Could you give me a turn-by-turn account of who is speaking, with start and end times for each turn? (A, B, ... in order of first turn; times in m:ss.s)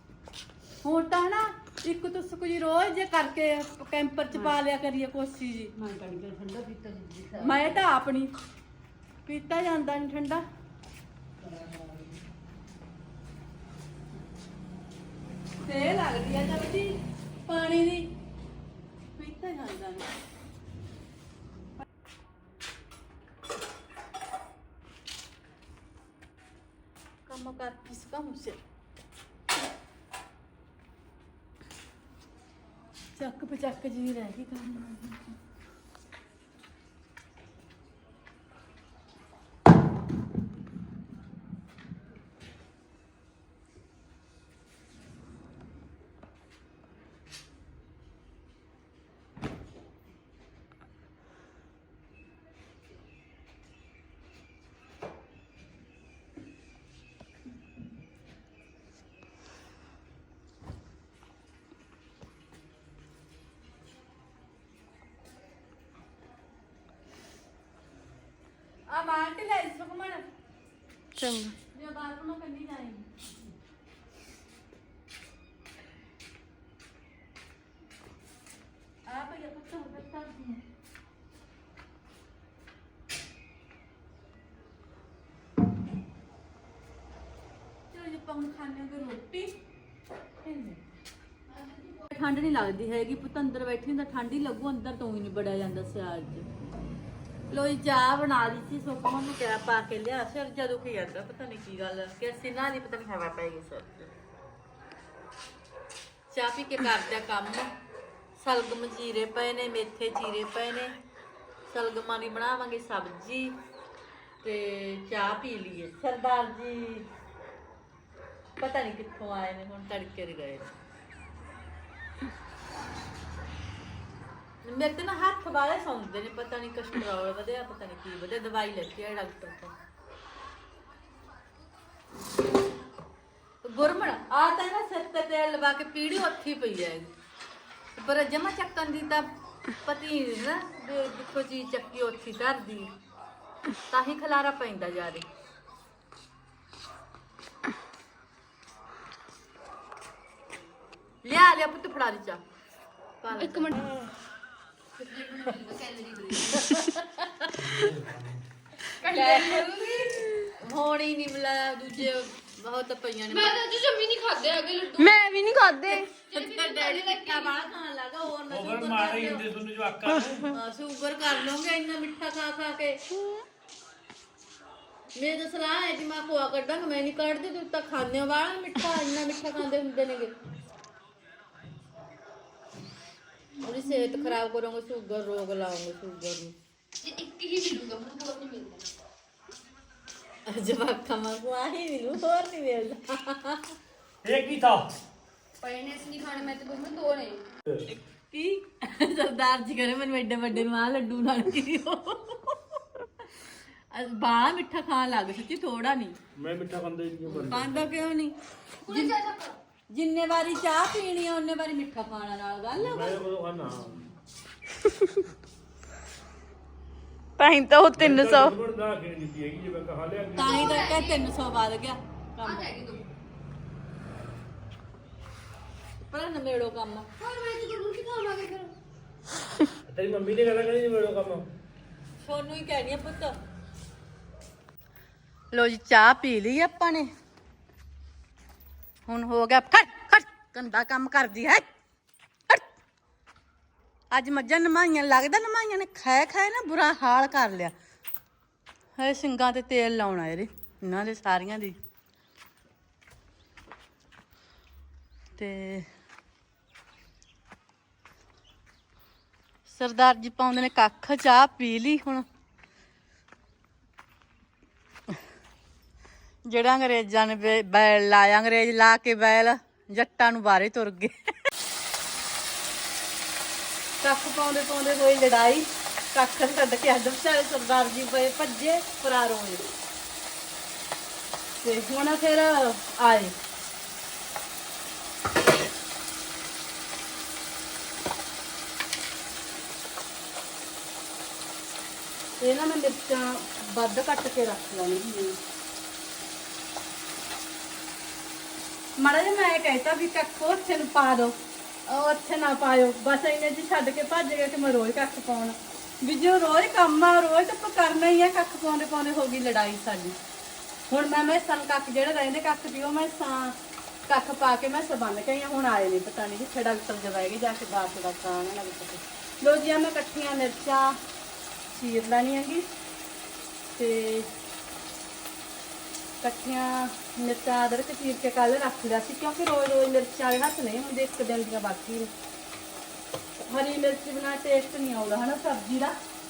0:00.8-0:05.7 A
0:05.8-0:07.7 B
0:07.4-0:08.3 A
0:09.2-0:10.4 A
0:11.4-0:12.2 B
0:15.6-0:18.1 A
0:19.2-0:20.1 A
0:27.3-0:28.6 A
0:33.2-0:35.4 A
1:08.9-1:10.2 A
1:11.2-1:11.4 B
1:11.6-1:13.1 A
1:19.1-1:20.6 A
1:27.9-1:29.6 A
1:30.4-1:30.8 A
1:31.9-1:36.5 A
1:37.5-1:44.1 A
1:46.3-1:47.7 A
1:48.4-1:51.0 A
1:51.7-1:53.6 A
1:54.4-1:57.1 A
1:58.6-2:00.7 A
2:04.6-2:09.7 A
2:13.6-2:17.1 A
2:18.0-2:19.3 A
2:19.8-2:22.9 A
2:23.9-2:25.3 A
2:31.2-2:32.4 A
2:33.2-2:33.9 A
2:33.4-2:34.0 B
2:35.0-2:36.8 B
2:36.4-2:37.6 A
2:37.6-2:38.4 C
2:39.0-2:39.7 A
2:39.0-2:40.4 B
2:39.2-2:39.6 D
2:40.4-2:43.7 A
2:43.3-2:46.3 B
2:45.0-2:45.9 D
2:45.9-2:49.5 A
2:46.6-2:47.3 D
2:48.5-2:50.5 C
2:50.5-2:53.0 A
2:55.2-3:00.3 A
3:03.6-3:06.5 A
3:07.0-3:08.9 B
3:07.7-3:08.5 D
3:10.4-3:13.7 A
3:14.2-3:14.9 C
3:15.6-3:17.4 B
3:16.5-3:16.8 D
3:17.9-3:22.8 A
3:23.9-3:26.2 A
3:26.4-3:27.8 C
3:27.3-3:28.4 A
3:28.9-3:29.2 A
3:28.9-3:29.5 B
3:29.9-3:33.2 A
3:32.8-3:34.1 C
3:37.4-3:38.5 D
3:37.9-3:40.7 C
3:40.3-3:42.7 A
3:40.5-3:41.1 B
3:42.4-3:43.0 B
3:46.1-3:47.1 A
3:47.2-3:48.7 B
3:49.8-3:51.4 C
3:52.2-3:53.3 A
3:55.5-3:57.1 A
3:59.1-4:01.6 A
4:04.1-4:07.7 A
4:09.0-4:11.8 A
4:15.4-4:15.9 A
4:19.7-4:22.2 A
4:26.4-4:31.1 A
4:34.0-4:39.7 A
4:41.6-4:43.3 A
4:52.4-4:55.4 A
4:59.0-5:01.4 A
5:01.9-5:10.2 A
5:10.9-5:13.6 A
5:14.1-5:21.0 A
5:21.7-5:22.7 A
5:23.7-5:24.3 A
5:26.2-5:32.1 A
5:33.4-5:36.0 A